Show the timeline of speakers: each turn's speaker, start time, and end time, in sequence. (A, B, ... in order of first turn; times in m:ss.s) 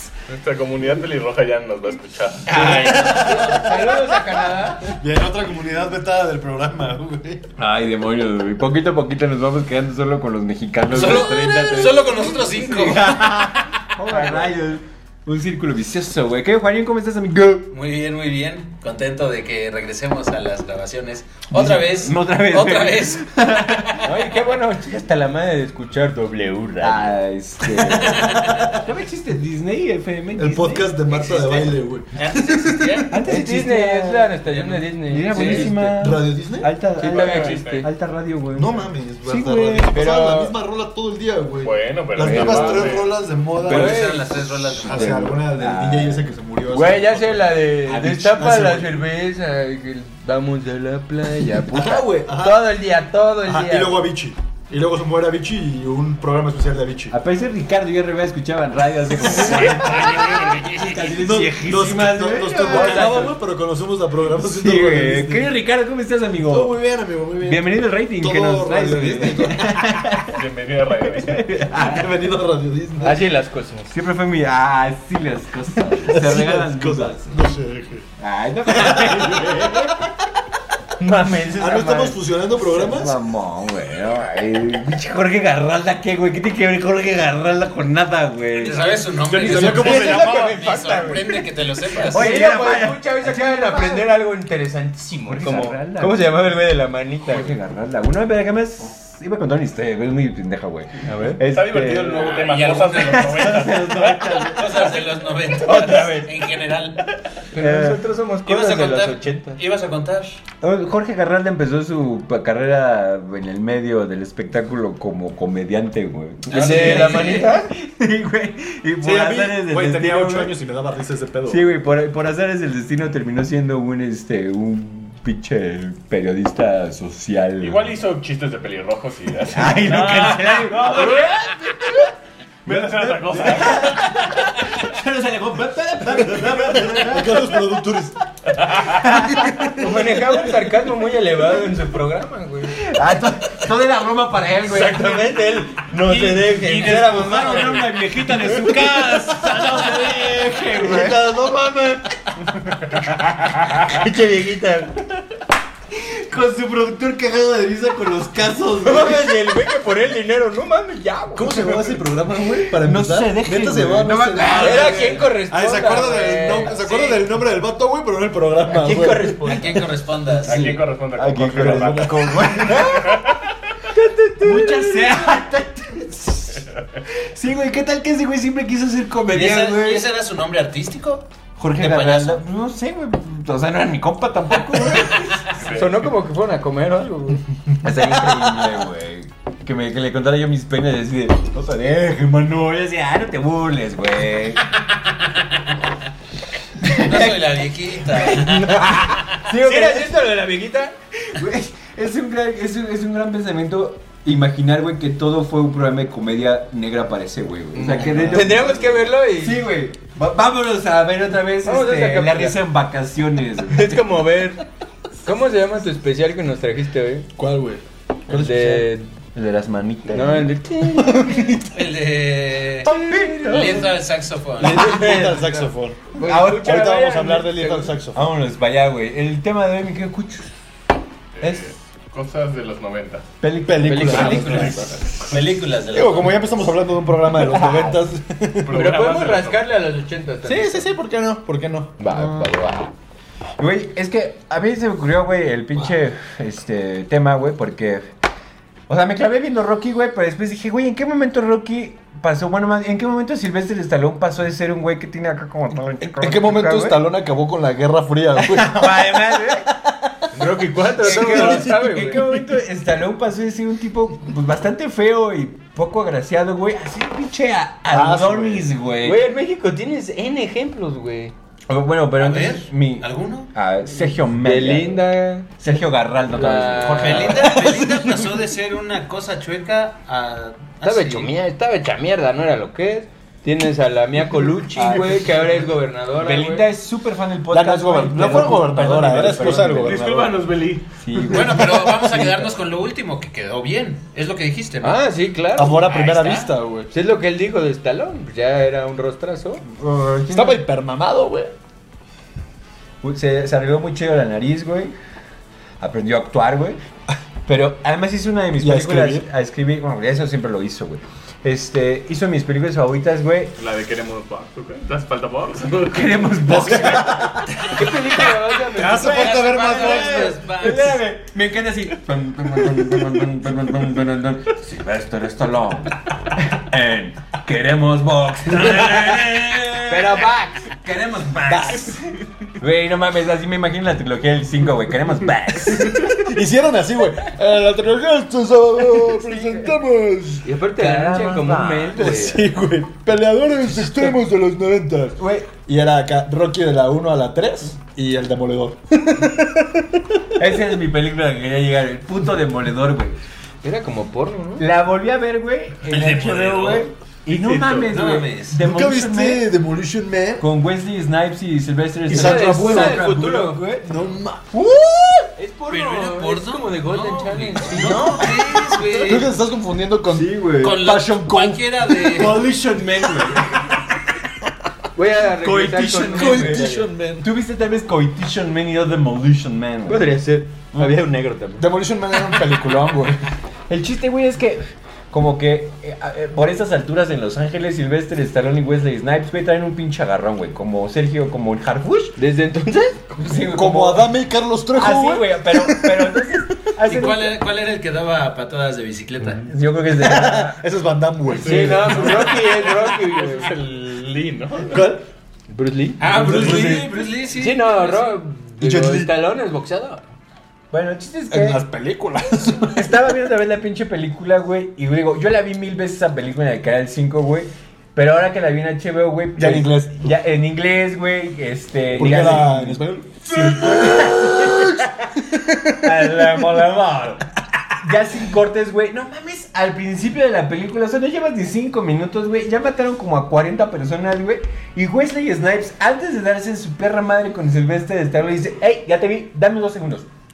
0:00.3-0:02.8 A
0:02.5-0:04.9 B
0:02.5-0:03.3 C
0:02.6-0:04.0 D
0:03.1-0:04.5 E
0:04.9-0:07.4 D
0:07.6-0:17.7 C
0:10.9-0:14.5 E
0:17.7-0:24.2 E
0:21.5-0:24.0 C
0:24.0-0:27.2 B
0:26.8-0:31.6 C
0:28.2-0:28.8 D
0:30.4-0:33.5 D
0:32.2-0:36.2 B
0:33.1-0:38.9 C
0:35.3-0:35.7 A
0:35.3-0:36.7 D
0:37.0-0:37.9 B
0:37.0-0:37.9 A
0:38.6-0:47.7 D
0:39.3-0:40.6 B
0:39.4-0:39.9 C
0:41.6-0:43.1 A
0:42.2-0:43.0 C
0:43.6-0:44.2 B
0:43.6-0:45.4 E
0:44.8-0:46.3 C
0:46.7-0:54.1 B
0:47.8-0:48.8 C
0:48.4-0:49.0 D
0:51.7-0:52.7 D
0:53.4-0:57.2 D
0:57.1-1:03.3 C
0:59.2-1:00.2 D
0:59.5-1:00.8 A
1:01.1-1:05.5 D
1:01.3-1:01.8 B
1:02.4-1:03.3 B
1:04.3-1:06.8 C
1:06.4-1:09.9 D
1:07.4-1:10.4 C
1:10.3-1:11.6 A
1:11.2-1:12.1 C
1:11.7-1:13.2 D
1:13.0-1:13.9 B
1:13.9-1:17.4 C
1:16.0-1:18.1 D
1:18.2-1:20.0 C
1:18.7-1:19.7 D
1:21.0-1:22.2 B
1:21.6-1:23.2 D
1:22.6-1:29.1 C
1:28.6-1:32.4 E
1:29.2-1:30.5 D
1:29.4-1:31.4 B
1:31.9-1:34.1 C
1:32.0-1:37.5 B
1:35.3-1:36.6 C
1:37.2-1:45.1 C
1:41.0-1:41.4 B
1:41.4-1:44.4 A
1:42.3-1:43.6 E
1:44.3-1:47.0 E
1:45.6-1:46.3 B
1:45.6-1:46.2 C
1:47.5-1:49.6 B
1:47.5-1:48.0 C
1:48.4-1:50.4 E
1:50.6-2:00.5 C
1:56.5-1:57.5 E
1:56.5-1:57.7 B
1:59.0-2:01.7 D
2:01.5-2:08.0 C
2:07.6-2:11.3 A
2:09.5-2:11.9 C
2:12.7-2:14.1 A
2:12.7-2:17.5 C
2:13.0-2:13.6 D
2:16.3-2:18.2 D
2:18.6-2:20.2 C
2:19.0-2:20.4 D
2:19.8-2:22.8 B
2:22.7-2:32.1 C
2:24.6-2:27.8 B
2:26.8-2:27.9 E
2:30.8-2:31.3 D
2:32.9-2:34.0 C
2:33.8-2:35.0 B
2:35.9-2:39.5 C
2:38.8-2:41.8 B
2:41.4-2:49.5 D
2:42.8-2:45.2 C
2:44.3-2:44.9 E
2:44.6-2:46.8 B
2:46.7-2:47.3 E
2:48.7-2:49.8 C
2:49.4-2:50.8 E
2:50.4-2:53.5 A
2:50.5-2:53.2 C
2:51.4-2:52.9 D
2:53.9-2:55.3 B
2:54.4-3:00.0 C
2:56.7-2:57.0 A
2:59.3-3:02.4 E
3:01.6-3:05.6 C
3:05.5-3:06.0 A
3:05.6-3:07.4 B
3:07.8-3:14.7 C
3:16.8-3:17.3 C
3:16.9-3:18.8 E
3:18.1-3:21.0 B
3:18.8-3:20.1 C
3:21.3-3:34.1 C
3:27.8-3:28.5 D
3:27.8-3:29.6 B
3:31.6-3:32.6 B
3:33.7-3:34.6 B
3:35.2-3:37.3 B
3:37.4-3:38.8 D
3:38.3-3:39.1 B
3:38.3-3:40.5 C
3:40.1-3:41.4 B
3:41.0-3:41.6 D
3:41.7-3:42.9 E
3:42.8-3:43.9 C
3:42.9-3:43.9 B
3:43.5-3:44.9 E
3:44.6-3:48.3 D
3:44.6-3:47.9 B
3:46.2-3:47.0 C
3:48.1-3:50.5 C
3:51.4-3:53.3 A
3:51.4-3:51.7 C
3:53.4-3:54.9 C
3:53.6-3:55.4 D
3:53.8-3:54.8 B
3:54.0-3:56.6 E
3:54.2-3:55.3 A
3:55.9-3:58.8 D
3:57.4-3:58.0 C
3:58.6-3:59.6 A
3:58.7-4:00.9 B
4:00.4-4:02.1 D
4:02.0-4:02.9 B
4:02.0-4:02.8 C
4:03.6-4:08.1 C
4:08.9-4:17.0 C
4:16.0-4:19.0 D
4:18.4-4:19.7 C
4:20.3-4:22.2 B
4:21.0-4:22.5 D
4:21.0-4:29.2 C
4:27.9-4:28.7 D
4:29.0-4:31.3 B
4:31.7-4:35.0 C
4:32.2-4:33.5 E
4:34.4-4:35.5 B
4:35.6-4:37.6 C
4:36.3-4:37.5 B
4:36.7-4:41.3 E
4:37.4-4:38.3 D
4:40.8-4:46.7 B
4:44.7-4:50.1 C
4:47.5-4:50.4 D
4:49.4-4:50.9 A
4:51.0-4:52.5 C
4:51.3-4:55.0 E
4:51.3-4:51.9 D
4:54.8-4:55.8 B
4:55.5-4:56.9 D
4:55.7-4:56.5 E
4:56.9-4:59.6 B
4:59.7-5:00.6 C
5:00.3-5:01.5 D
5:03.0-5:04.9 C
5:05.8-5:06.8 C
5:07.5-5:13.5 C
5:08.6-5:09.3 D
5:13.6-5:16.6 A
5:15.7-5:36.2 C
5:16.5-5:17.5 D
5:17.6-5:19.4 B
5:18.7-5:20.9 D
5:18.9-5:20.9 E
5:29.9-5:30.7 B
5:31.5-5:32.0 D
5:35.9-5:40.5 D
5:40.4-5:42.4 B
5:40.7-5:42.4 C
5:41.9-5:50.2 D
5:45.2-5:45.5 C
5:50.4-5:53.2 C
5:53.6-5:54.7 B
5:54.6-5:59.5 C
5:55.9-5:56.9 E
5:57.3-5:58.0 A
5:57.9-5:58.5 E
5:58.5-6:00.4 D
6:00.4-6:03.8 C
6:02.1-6:04.5 D
6:02.1-6:03.7 B
6:04.5-6:05.3 C
6:05.3-6:08.2 B
6:05.7-6:09.3 E
6:07.8-6:08.4 C
6:07.8-6:13.6 D
6:10.1-6:10.8 C
6:10.6-6:12.4 E
6:12.1-6:13.6 C
6:15.0-6:16.9 B
6:15.4-6:17.3 D
6:16.1-6:20.2 C
6:19.9-6:21.6 B
6:20.8-6:21.0 C
6:21.6-6:23.2 D
6:22.3-6:23.1 C
6:23.7-6:32.2 C
6:32.2-6:33.0 B
6:33.2-6:34.1 C
6:33.5-6:36.4 D
6:34.7-6:37.4 C
6:36.8-6:39.5 E
6:39.4-6:40.6 C
6:39.9-6:42.6 D
6:41.3-6:43.6 B
6:41.4-6:44.8 A
6:44.7-6:45.0 D
6:45.5-6:46.6 B
6:46.0-6:48.2 E
6:46.1-6:46.9 C
6:46.1-6:47.1 D
6:47.4-6:50.0 B
6:48.6-6:49.2 D
6:50.7-6:51.6 C
6:51.3-6:53.0 D
6:52.7-7:05.2 C
6:59.4-7:00.1 D
7:02.0-7:06.5 D
7:05.8-7:07.2 C
7:07.8-7:20.1 C